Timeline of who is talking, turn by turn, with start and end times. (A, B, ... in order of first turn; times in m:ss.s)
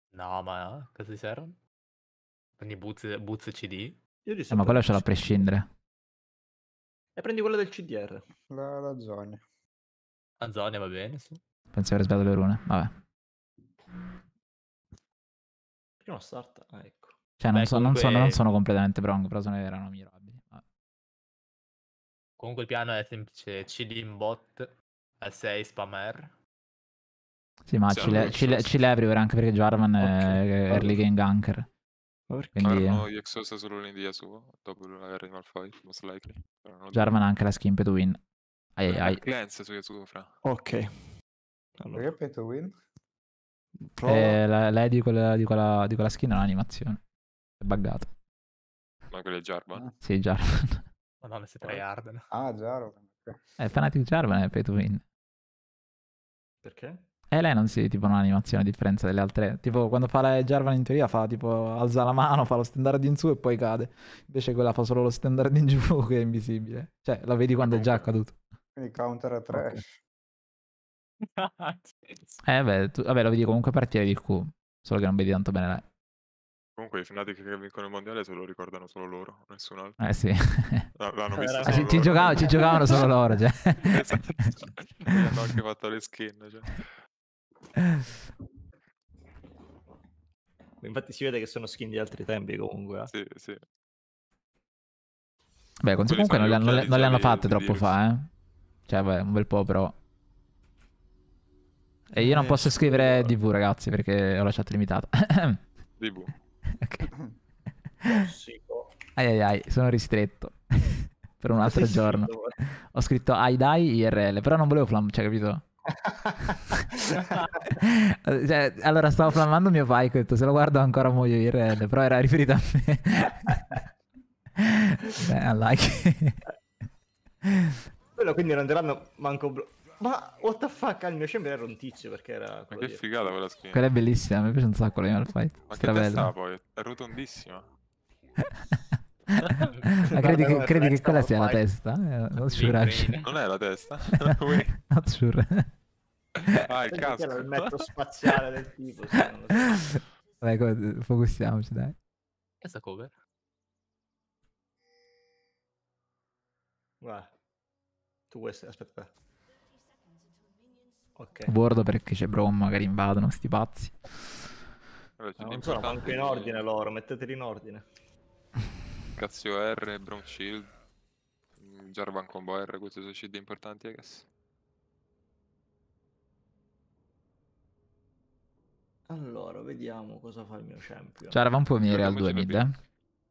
0:00.1-0:01.6 A
0:02.6-0:04.0 A
0:04.2-0:05.4 B
0:04.5-0:05.7 C
0:07.2-0:08.2 B
0:08.5-0:09.4 D
0:10.4-0:11.4 A
0:11.7-0:12.9 C
0:16.0-0:17.2 B
0:17.4-0:20.6 C
0:17.5-0:18.4 A
0:22.4-0:26.3 A
0:27.7-0:31.7 C
0:27.9-0:28.8 E
0:30.0-0:31.0 B
0:32.3-0:32.6 B
0:32.6-0:33.0 C
0:32.6-0:37.2 E
0:36.9-0:38.2 C
0:38.8-0:39.2 C
0:38.9-0:40.3 E
0:40.4-0:40.9 B
0:41.8-0:42.1 B
0:41.9-0:42.7 D
0:43.8-0:44.4 B
0:44.0-0:47.0 C
0:47.6-0:48.1 C
0:49.1-0:49.9 E
0:50.0-0:50.8 C
0:51.2-0:52.3 A
0:52.3-0:53.4 D
0:53.6-0:55.0 C
0:56.6-0:57.0 B
0:57.3-1:08.4 C
1:07.6-1:08.1 E
1:08.8-1:10.0 D
1:11.2-1:12.4 A
1:12.4-1:15.8 C
1:16.8-1:20.0 E
1:20.0-1:20.9 C
1:21.0-1:23.0 E
1:21.4-1:23.2 B
1:21.6-1:24.2 C
1:23.8-1:26.9 E
1:27.8-1:28.0 C
1:30.8-1:33.1 B
1:33.1-1:33.6 E
1:35.8-1:38.3 C
1:36.1-1:37.9 E
1:38.9-1:40.0 C
1:42.1-1:45.6 C
1:42.2-1:43.3 B
1:46.0-1:46.3 E
1:46.7-1:47.1 C
1:48.1-1:49.0 B
1:49.2-1:55.6 C
1:51.6-1:52.6 B
1:55.9-1:57.7 B
1:57.7-2:03.8 C
2:04.6-2:06.4 C
2:07.4-2:07.8 C
2:08.2-2:13.0 B
2:12.7-2:13.8 E
2:13.7-2:16.3 C
2:15.7-2:17.7 E
2:19.4-2:23.2 C
2:19.7-2:20.0 A
2:20.0-2:21.6 B
2:22.4-2:23.3 A
2:23.2-2:24.8 E
2:24.2-2:25.7 C
2:26.5-2:27.9 E
2:26.9-2:30.0 B
2:30.4-2:32.0 C
2:32.6-2:33.1 A
2:37.0-2:37.3 B
2:38.3-2:39.1 B
2:41.2-2:41.5 B
2:41.5-2:44.0 C
2:45.2-2:46.6 E
2:45.4-2:47.8 B
2:49.2-2:50.7 E
2:51.6-2:54.3 E
2:59.1-3:01.4 B
3:01.3-3:02.8 C
3:01.8-3:02.7 E